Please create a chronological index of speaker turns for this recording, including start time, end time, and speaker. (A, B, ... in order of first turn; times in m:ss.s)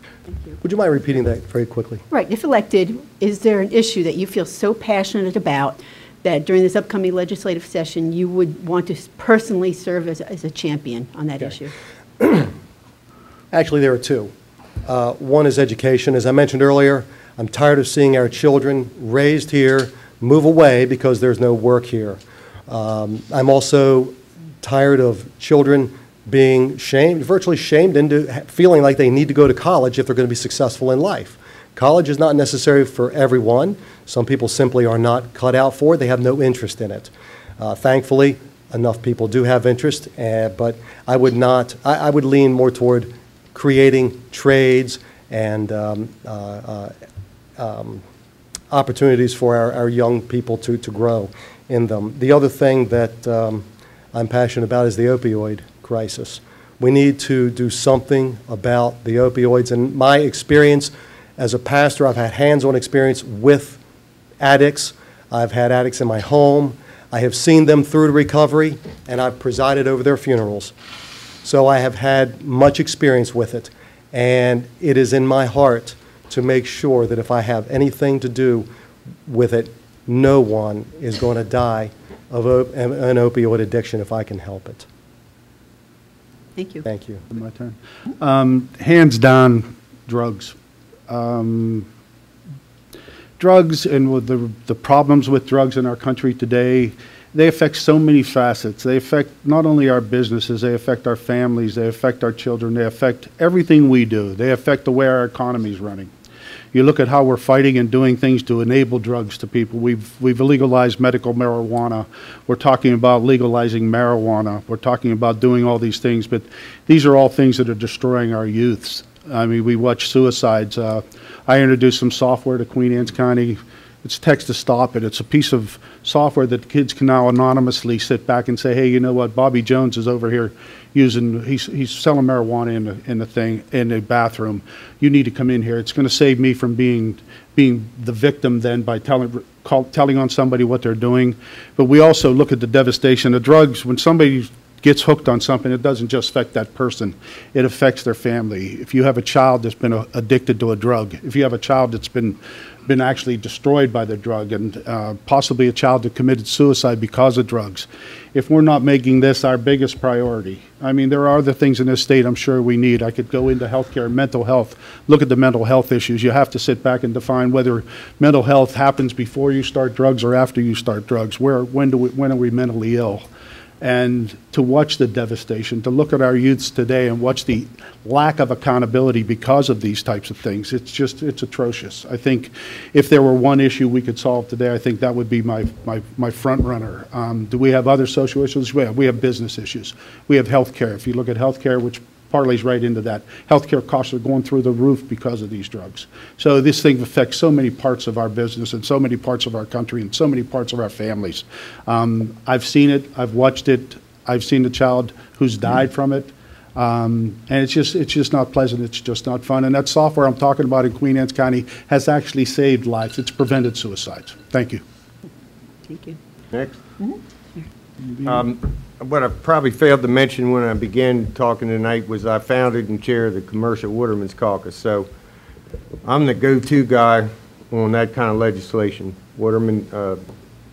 0:00.3-0:00.6 A
0:00.6-0:02.0 B
0:02.1-0:11.7 A
0:12.2-0:12.5 B
0:13.5-0:14.3 B
0:14.8-0:46.9 B
0:47.6-0:48.0 B
0:48.7-1:03.8 B
1:04.4-1:10.7 B
1:11.4-1:18.7 B
1:19.2-1:24.9 B
1:26.6-1:26.8 A
1:26.8-1:27.2 B
1:27.3-1:30.5 C
1:31.1-1:31.9 C
1:33.4-1:46.1 C
1:46.7-2:53.3 C
2:53.8-3:34.8 C
3:35.9-3:36.2 A
3:37.0-3:37.6 A
3:38.1-3:38.4 C
3:38.2-3:45.1 D
3:46.0-3:50.2 D